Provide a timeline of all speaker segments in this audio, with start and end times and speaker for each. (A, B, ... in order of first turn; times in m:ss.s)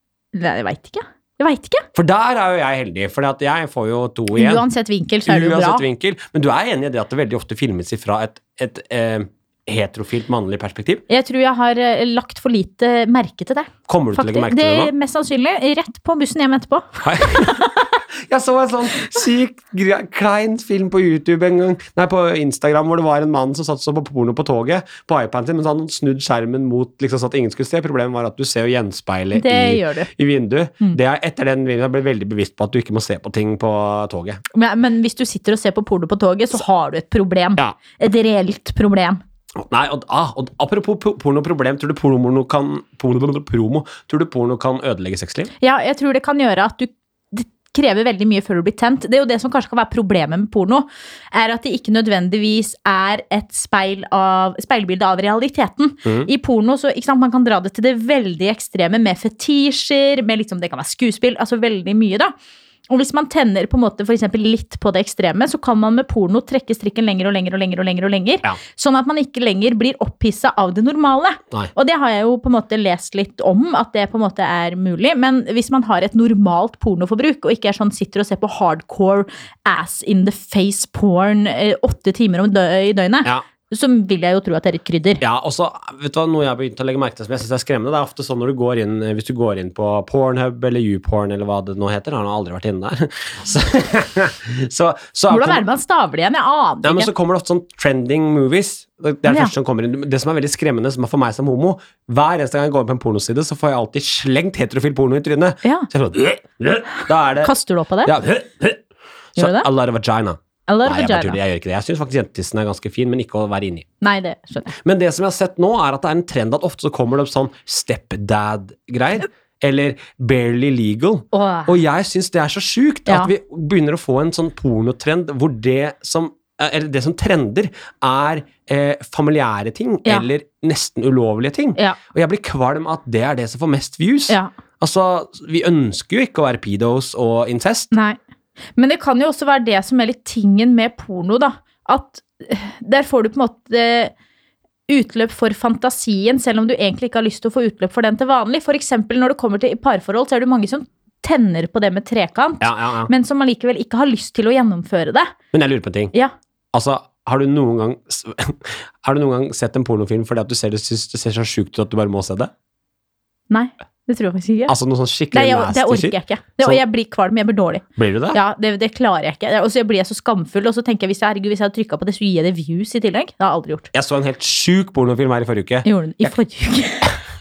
0:00.3-0:01.8 A
0:01.9-0:04.6 B
0:04.3-0:05.8 A
0:05.2-0:11.0 B
0:11.1-0:17.9 A
0:13.9-0:14.9 B
0:17.0-0:17.6 B
0:18.3-0:34.4 B
0:29.3-0:30.1 A
0:34.5-0:39.2 A
0:39.6-0:45.5 B
0:45.6-1:02.3 A
1:02.9-1:25.2 A
1:25.2-1:35.6 B
1:35.3-1:37.1 A
1:36.8-1:47.5 B
1:39.3-1:39.5 A
1:47.4-1:48.1 A
1:48.0-1:48.8 B
1:49.4-1:53.8 B
1:49.4-1:49.7 A
1:50.7-1:51.4 A
1:54.0-1:54.7 A
1:54.8-2:17.9 B
2:01.3-2:01.8 A
2:17.9-2:18.2 A
2:18.8-2:24.1 A
2:24.9-2:35.3 A
2:32.6-2:33.1 B
2:35.5-2:36.1 B
2:36.7-2:42.5 B
2:43.5-2:44.8 A
2:44.7-2:46.8 B
2:45.3-2:53.9 A
2:48.0-2:48.4 B
2:53.9-2:56.3 B
2:55.8-2:57.2 A